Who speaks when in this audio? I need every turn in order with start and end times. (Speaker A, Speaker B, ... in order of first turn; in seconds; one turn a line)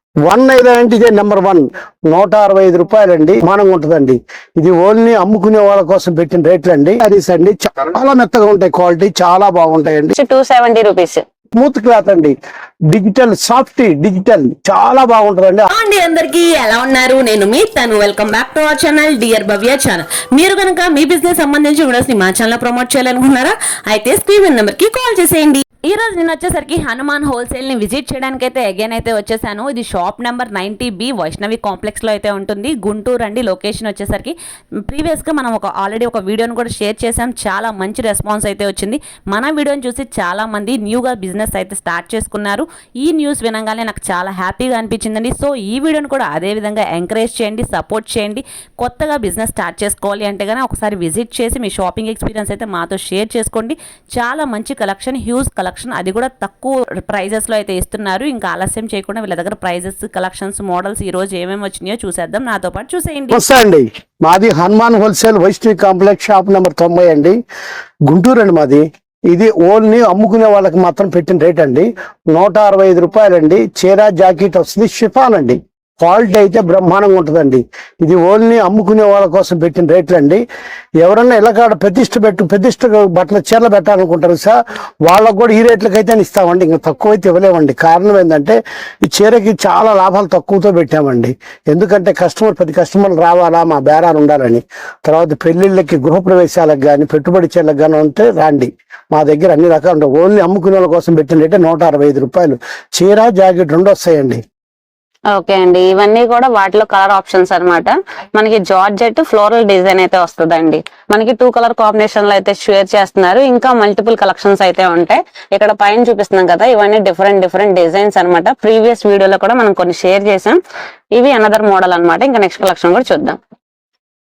Speaker A: 0.2-10.1
Speaker B: 10.2-11.2
Speaker A: 11.6-12.3
Speaker A: 12.9-15.7
Speaker C: 15.7-34.3
Speaker C: 34.9-63.4
Speaker A: 63.3-67.4
Speaker A: 68.1-80.4
Speaker A: 81.0-104.4
Speaker B: 105.3-120.6
Speaker B: 121.1-123.4